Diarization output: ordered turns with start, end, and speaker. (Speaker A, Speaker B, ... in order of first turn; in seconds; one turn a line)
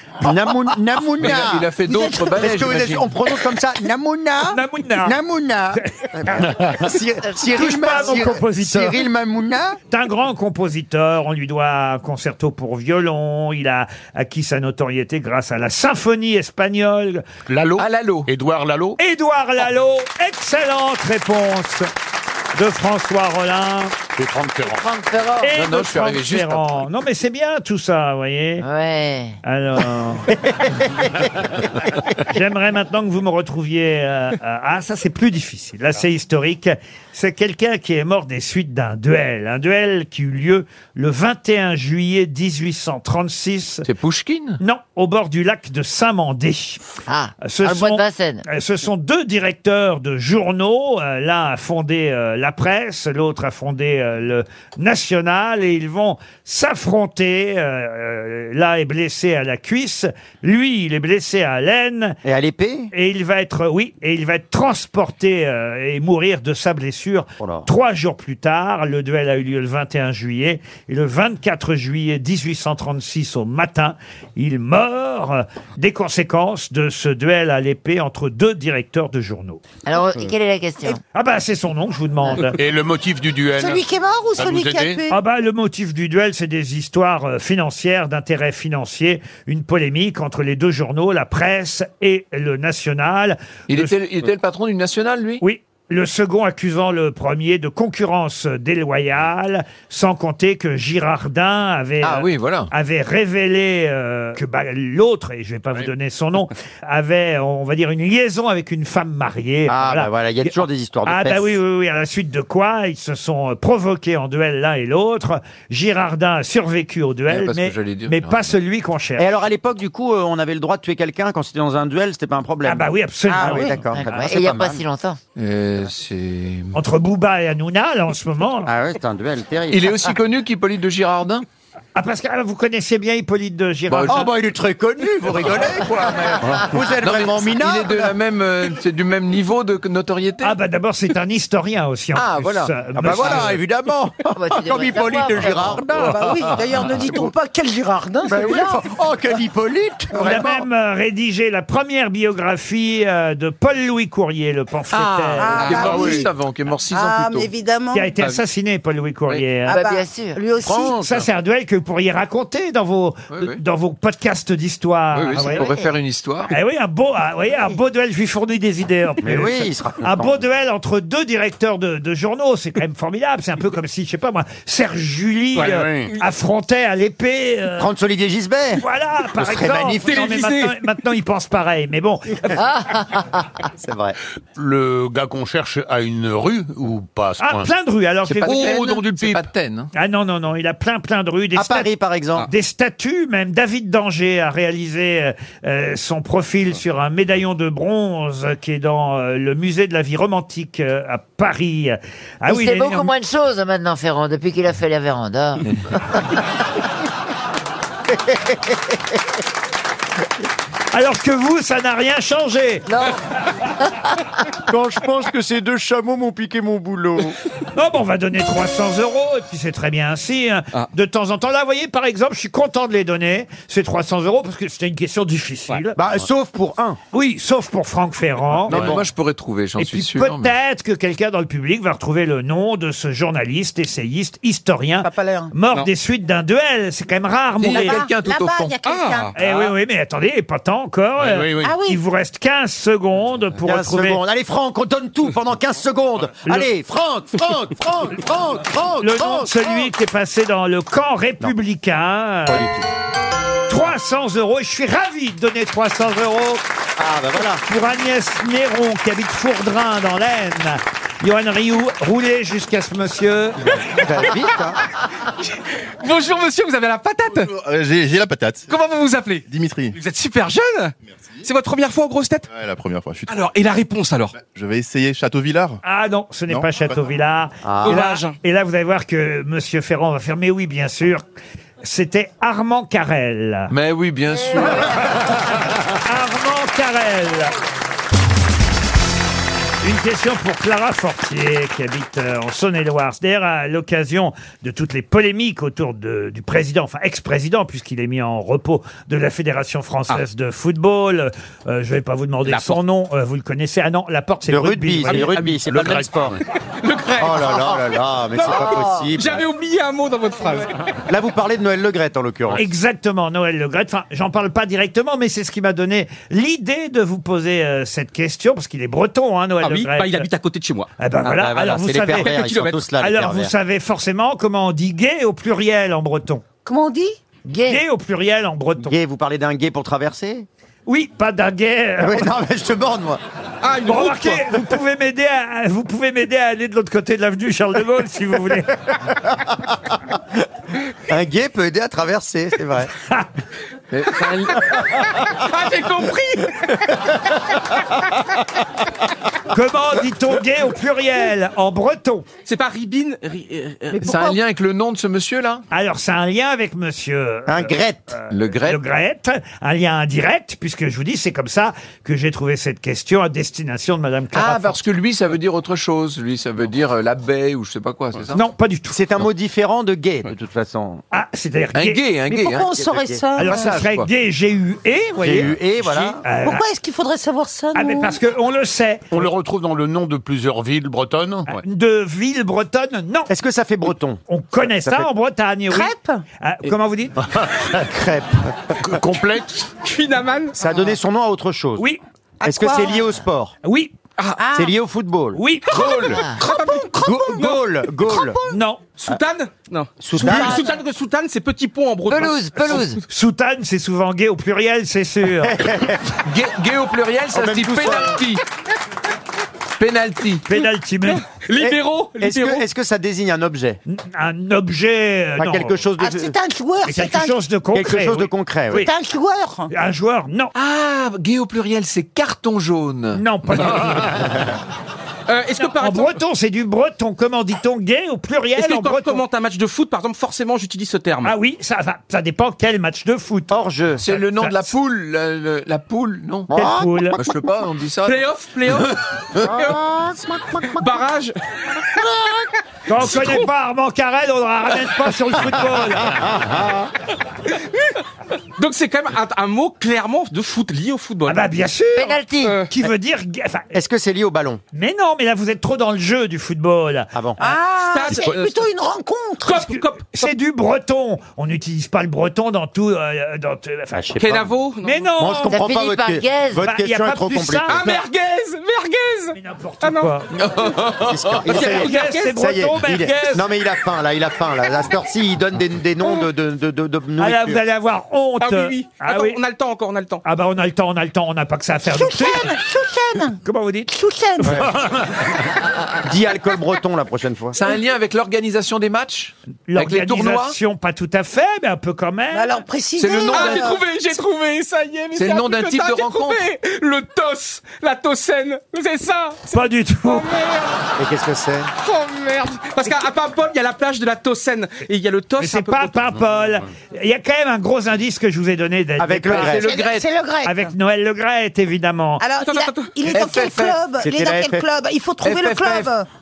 Speaker A: 0.2-1.7
Speaker B: 1.2-3.1
Speaker C: 1.9-2.2
Speaker A: 2.4-9.8
Speaker D: 4.5-5.2
Speaker D: 5.8-6.4
Speaker D: 7.5-9.0
Speaker D: 9.9-17.2
Speaker E: 17.5-19.0
Speaker B: 17.8-18.3
Speaker D: 19.0-21.9
Speaker D: 22.6-24.0
Speaker A: 24.2-24.6
Speaker F: 24.6-25.5
Speaker D: 25.4-28.6
Speaker B: 25.5-26.9
Speaker F: 28.6-29.4
Speaker D: 29.4-30.3
Speaker A: 30.3-31.5
Speaker D: 32.2-43.9
Speaker B: 43.8-44.6
Speaker D: 44.6-46.8
Speaker F: 47.1-48.4
Speaker D: 47.4-62.2
Speaker A: 62.2-62.9
Speaker D: 62.9-79.6
Speaker A: 67.4-67.7
Speaker F: 79.9-81.0
Speaker D: 81.1-82.6
Speaker E: 82.6-83.8
Speaker C: 83.6-85.2
Speaker E: 84.4-85.0
Speaker D: 85.1-93.9
Speaker B: 93.7-95.4
Speaker D: 95.4-119.3
Speaker B: 102.0-102.7
Speaker A: 109.7-111.5
Speaker B: 117.3-118.6
Speaker A: 119.2-124.8
Speaker D: 122.7-124.2
Speaker C: 123.3-123.8
Speaker F: 123.9-125.2
Speaker B: 125.4-126.8
Speaker D: 126.7-128.7
Speaker A: 128.7-130.1
Speaker B: 129.7-131.4
Speaker D: 131.9-134.3
Speaker B: 133.9-134.3
Speaker A: 134.1-138.2
Speaker B: 135.4-135.7
Speaker B: 137.0-140.6
Speaker D: 140.4-143.6
Speaker B: 142.2-143.6
Speaker A: 143.0-146.1
Speaker F: 144.3-145.8
Speaker C: 145.8-148.8
Speaker A: 148.3-150.7
Speaker D: 150.2-156.0
Speaker B: 154.9-157.5
Speaker C: 155.4-156.3
Speaker E: 155.8-156.2
Speaker C: 156.9-158.1
Speaker D: 157.9-159.8
Speaker C: 159.7-161.0
Speaker F: 159.7-160.4
Speaker D: 160.8-165.7
Speaker B: 163.3-163.6
Speaker B: 165.1-166.5
Speaker D: 166.5-177.9
Speaker A: 169.2-170.4
Speaker E: 175.6-176.2
Speaker A: 177.8-178.8
Speaker D: 178.8-182.6
Speaker A: 179.4-180.3
Speaker G: 180.1-180.8
Speaker F: 182.5-183.2
Speaker A: 183.8-184.2
Speaker E: 184.6-187.7
Speaker D: 187.4-189.0
Speaker B: 188.3-189.9
Speaker E: 188.5-189.4
Speaker D: 189.9-191.9
Speaker A: 191.6-192.5
Speaker D: 192.4-203.1
Speaker F: 202.5-205.7
Speaker D: 210.9-212.9
Speaker F: 212.9-213.2
Speaker A: 214.7-217.4
Speaker D: 217.7-226.0
Speaker A: 226.0-227.0
Speaker D: 227.1-229.0
Speaker B: 228.7-230.5
Speaker E: 228.7-229.0
Speaker D: 229.8-238.0
Speaker C: 235.0-235.5
Speaker B: 237.6-238.8
Speaker C: 237.7-239.3
Speaker G: 238.8-239.3
Speaker D: 239.4-244.2
Speaker E: 241.2-241.8
Speaker C: 241.6-242.0
Speaker A: 243.6-249.9
Speaker D: 249.0-252.7
Speaker A: 252.5-252.9
Speaker D: 253.7-256.6
Speaker A: 257.0-257.6
Speaker D: 257.7-263.8
Speaker A: 263.9-264.8
Speaker G: 265.4-267.5
Speaker H: 267.3-268.7
Speaker G: 268.7-272.5
Speaker H: 269.5-270.0
Speaker H: 272.5-273.4
Speaker G: 273.3-274.3
Speaker H: 274.3-275.8
Speaker D: 275.8-281.2
Speaker H: 276.5-276.7
Speaker A: 277.6-278.0
Speaker G: 277.8-278.4
Speaker D: 281.8-283.7
Speaker B: 283.7-285.1
Speaker F: 284.5-284.9
Speaker D: 286.0-287.5
Speaker D: 289.8-305.6
Speaker G: 302.5-302.8
Speaker A: 304.5-306.4
Speaker E: 305.7-306.1
Speaker G: 306.8-310.7
Speaker A: 307.2-309.4
Speaker F: 308.7-309.1
Speaker A: 311.1-312.6
Speaker D: 312.5-320.3
Speaker G: 319.6-320.9
Speaker D: 321.0-322.4
Speaker A: 321.2-323.5
Speaker G: 322.1-322.8
Speaker D: 323.0-326.4
Speaker C: 326.7-327.2
Speaker F: 327.5-327.8
Speaker D: 327.7-328.9
Speaker A: 328.8-330.5
Speaker D: 330.9-332.3
Speaker A: 332.0-333.2
Speaker G: 333.6-334.5
Speaker D: 333.9-338.8
Speaker A: 339.3-339.7
Speaker A: 341.1-342.9
Speaker B: 343.9-344.7
Speaker G: 344.8-346.7
Speaker D: 349.5-352.3
Speaker G: 352.5-353.9
Speaker C: 353.9-354.4
Speaker B: 354.0-355.6
Speaker D: 355.7-364.8
Speaker A: 357.5-358.1
Speaker B: 358.3-358.8
Speaker B: 364.3-368.4
Speaker D: 368.3-369.0
Speaker A: 368.9-371.0
Speaker D: 371.1-372.0
Speaker B: 371.7-372.8
Speaker C: 372.3-373.8
Speaker A: 372.7-373.2
Speaker D: 373.4-376.6
Speaker B: 373.4-374.1
Speaker A: 375.2-376.2
Speaker C: 376.4-378.2
Speaker D: 377.8-379.3
Speaker E: 379.1-381.5
Speaker D: 381.5-383.3
Speaker A: 383.3-385.1
Speaker D: 384.3-387.2
Speaker C: 385.7-386.2
Speaker A: 387.7-389.0
Speaker E: 388.8-389.7
Speaker G: 389.8-390.6
Speaker A: 390.5-391.9
Speaker A: 392.4-393.5
Speaker C: 392.5-393.0
Speaker D: 393.6-393.9
Speaker C: 394.4-394.7
Speaker A: 394.5-395.4
Speaker D: 395.4-396.0
Speaker G: 395.7-396.9
Speaker C: 395.7-398.6
Speaker F: 396.1-396.4
Speaker A: 397.0-398.4
Speaker D: 398.5-398.8
Speaker G: 399.0-402.9
Speaker A: 400.0-400.7
Speaker C: 400.2-400.7
Speaker F: 402.1-403.0
Speaker D: 403.1-405.6
Speaker A: 405.4-406.1
Speaker B: 406.2-408.4
Speaker A: 407.3-408.2
Speaker B: 409.8-410.6
Speaker D: 410.5-411.2
Speaker G: 411.1-412.6
Speaker A: 411.6-413.8
Speaker D: 413.9-415.8
Speaker A: 415.4-416.4
Speaker C: 416.0-417.3
Speaker D: 416.9-418.9
Speaker A: 417.7-418.9
Speaker C: 418.7-419.7
Speaker D: 419.7-420.5
Speaker B: 420.6-423.2
Speaker D: 423.1-424.3
Speaker G: 425.3-426.2
Speaker D: 425.6-429.2
Speaker G: 428.6-431.3
Speaker D: 431.2-433.5
Speaker A: 433.5-434.0
Speaker B: 434.0-438.2
Speaker D: 434.1-434.7
Speaker A: 436.5-437.3
Speaker D: 436.5-437.2
Speaker G: 438.1-439.8
Speaker A: 439.4-440.8
Speaker G: 440.8-441.3
Speaker A: 441.9-442.4
Speaker D: 442.9-446.3
Speaker A: 445.5-446.9
Speaker G: 447.5-447.9
Speaker G: 448.6-451.5
Speaker D: 451.3-453.7
Speaker F: 452.0-452.6
Speaker G: 452.4-452.7
Speaker A: 453.7-454.6
Speaker D: 454.7-457.1
Speaker A: 457.1-457.5
Speaker C: 457.4-459.6
Speaker G: 457.8-458.6
Speaker G: 459.4-460.3
Speaker D: 459.6-464.1
Speaker A: 463.9-464.5
Speaker G: 464.2-465.1
Speaker D: 464.8-465.6
Speaker A: 465.2-467.8
Speaker F: 465.5-466.7
Speaker D: 466.6-468.0
Speaker G: 467.7-470.1
Speaker D: 469.3-470.4
Speaker B: 470.5-471.1
Speaker A: 470.9-477.6
Speaker G: 471.4-472.4
Speaker D: 471.5-473.5
Speaker D: 477.2-479.4
Speaker G: 478.4-480.2
Speaker D: 480.2-482.5
Speaker C: 481.9-483.4
Speaker D: 483.4-483.9
Speaker C: 483.9-484.6
Speaker A: 484.4-484.7
Speaker A: 486.0-487.6
Speaker B: 487.5-490.6
Speaker D: 489.7-492.6
Speaker C: 492.3-493.8
Speaker B: 493.0-493.8
Speaker G: 493.3-500.9
Speaker B: 495.1-496.4
Speaker D: 499.5-500.3
Speaker A: 501.0-501.7
Speaker G: 501.8-506.0
Speaker D: 505.4-509.6
Speaker A: 509.0-509.7
Speaker B: 509.3-510.1
Speaker C: 509.5-510.7
Speaker D: 510.4-512.2
Speaker C: 512.2-516.1
Speaker G: 512.4-512.9
Speaker B: 513.1-513.8
Speaker A: 514.0-514.7
Speaker B: 515.2-515.9